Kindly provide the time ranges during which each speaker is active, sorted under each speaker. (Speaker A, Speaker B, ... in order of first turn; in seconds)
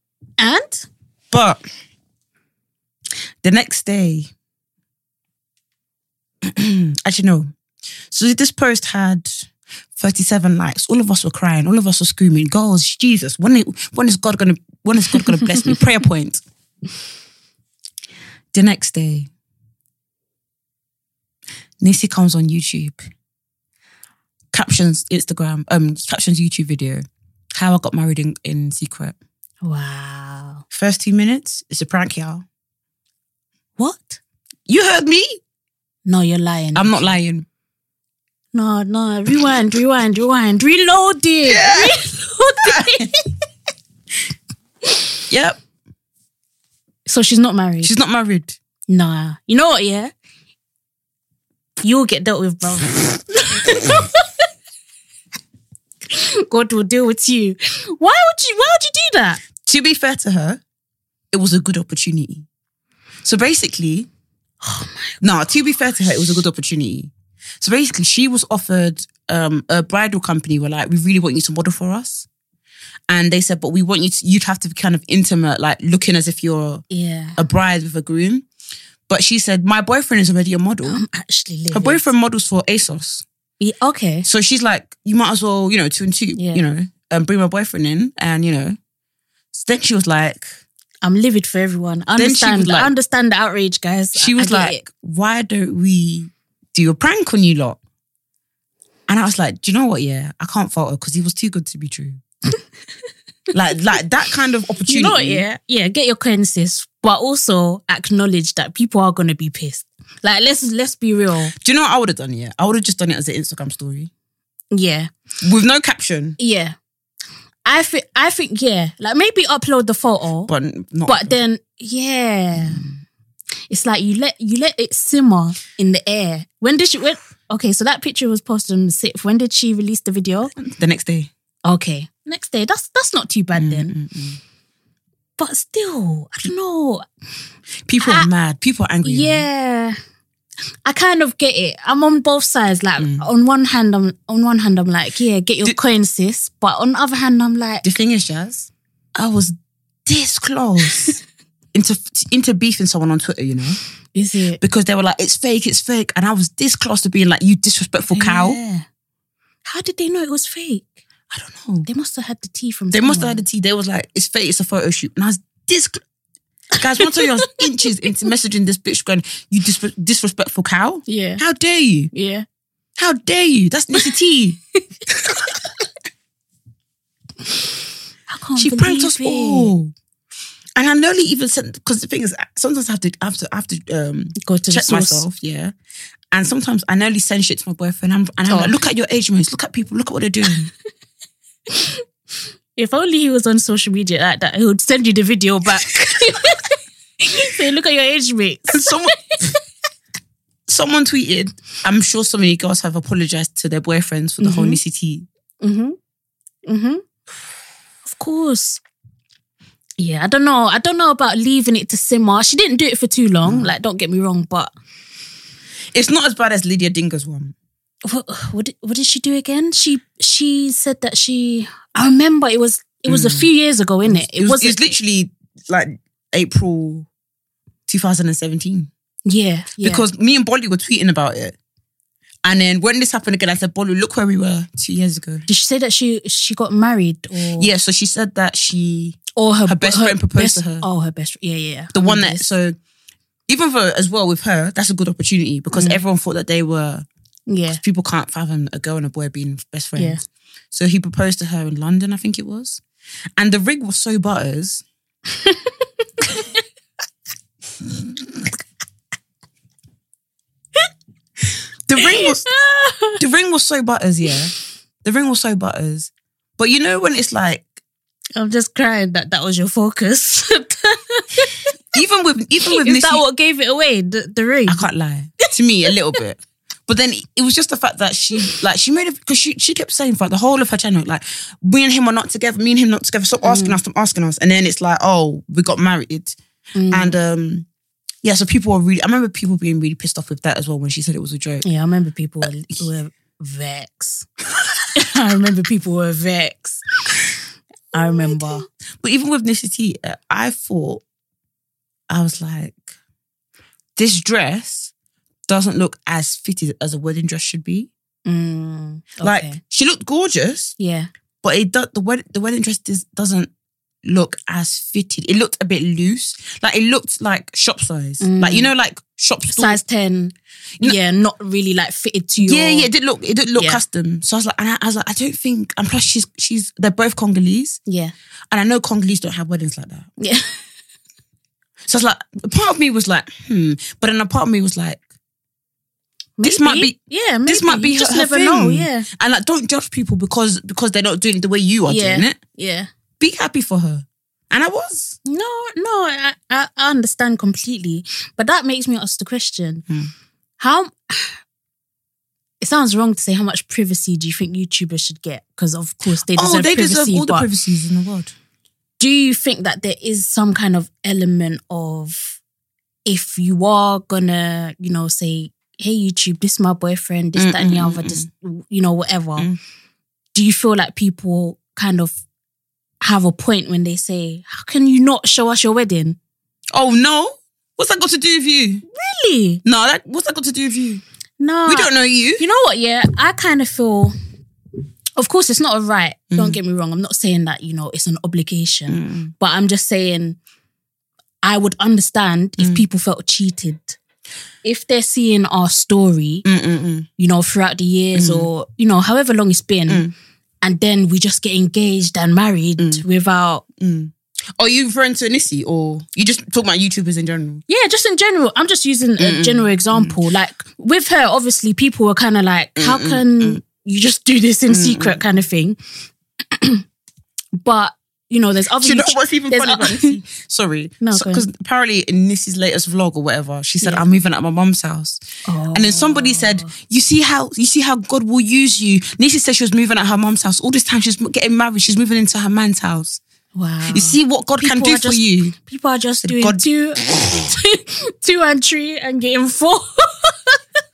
Speaker A: 0.4-0.9, 29.6-30.6, 33.8-34.2, 36.0-37.1, 38.5-43.3, 47.0-47.9, 48.9-50.1, 51.8-54.3, 56.1-59.4, 64.6-65.2, 76.9-77.4, 80.8-82.0, 83.6-84.3, 86.3-86.6, 91.0-94.8, 104.8-111.5, 114.7-115.1, 116.4-116.8, 117.7-120.5, 121.1-122.8, 123.7-130.5, 131.6-133.9, 135.4-137.0, 138.0-138.3, 139.0-139.9, 140.8-147.9, 154.1-154.6, 158.1-158.9, 159.6-161.0, 161.8-163.4, 167.0-167.5, 171.1-171.4, 172.1-172.4, 178.3-179.7, 184.4-185.2, 188.4-188.8, 191.7-192.0, 192.8-199.4, 204.4-204.8, 205.6-206.0, 206.7-207.0, 208.0-208.8, 210.0-214.7, 218.0-224.9, 229.2-230.1, 235.5-237.7, 239.3-242.5, 245.7-246.0, 247.5-247.8, 262.0-263.2, 268.4-271.7, 272.6-274.8, 283.4-283.8, 286.7-287.2, 291.6-294.3, 294.9-296.8, 297.9-298.6, 308.2-309.6, 310.8-311.1, 318.2-318.7, 319.5-322.9, 323.6-323.8, 327.9-328.1, 330.2-330.6, 336.4-339.1, 341.9-342.9, 345.2-349.8, 350.6-351.4, 352.6-357.5, 359.0-362.4, 363.1-369.5, 370.3-372.2, 373.0-376.2, 378.9-379.6, 381.4-384.1, 385.2-390.4, 391.4-394.0, 394.6-396.4, 397.2-400.1, 400.6-403.6, 407.7-415.8, 416.5-416.8, 417.6-420.2, 421.0-421.5, 425.4-426.7, 433.5-440.6
Speaker B: 1.3-1.6, 3.4-4.3, 6.4-7.5, 8.1-16.4, 18.5-19.3, 21.8-23.0, 24.5-27.0, 27.5-29.1, 30.7-32.5, 34.7-35.4, 36.7-37.5, 41.5-42.0, 42.6-43.1, 45.3-45.6, 47.8-48.6, 59.6-60.6, 61.3-62.5, 63.2-64.1, 65.2-72.3, 73.1-76.8, 77.4-78.5, 79.1-81.0, 81.7-83.2, 84.2-88.8, 89.5-90.5, 92.2-92.9, 94.1-97.8, 99.1-102.2, 103.5-105.4, 111.6-114.1, 115.4-116.4, 120.5-121.4, 122.7-122.9, 130.6-131.3, 133.6-134.4, 137.8-139.4, 143.0-143.2, 147.8-151.2, 151.7-153.8, 154.6-158.6, 161.3-161.9, 162.9-166.0, 166.8-172.1, 173.0-174.6, 178.6-179.9, 180.8-185.7, 186.3-190.7, 198.7-199.5, 200.7-205.3, 213.4-213.7, 215.9-217.5, 223.1-223.5, 224.1-227.1, 227.9-228.9, 229.8-231.6, 232.4-235.4, 237.6-240.8, 241.9-242.8, 243.5-247.1, 247.7-250.2, 250.7-252.8, 253.4-254.8, 261.9-262.5, 263.2-267.7, 271.9-273.2, 274.7-286.4, 286.9-287.7, 288.2-291.6, 298.0-301.0, 302.1-302.8, 303.9-304.9, 305.5-307.9, 309.2-310.7, 311.4-313.5, 314.0-319.8, 322.4-327.8, 328.5-330.1, 331.9-335.0, 336.4-342.4, 343.2-345.2, 356.2-358.3, 367.4-368.2, 376.7-378.8, 379.6-381.0, 381.6-382.4, 386.3-386.6, 388.9-389.3, 392.6-392.8, 396.4-397.1, 398.1-398.5, 399.9-400.1, 402.8-403.0, 403.8-407.6, 409.2-410.2, 412.8-413.6, 414.7-415.2, 418.8-425.2, 425.7-433.2, 433.9-435.5, 436.2-437.5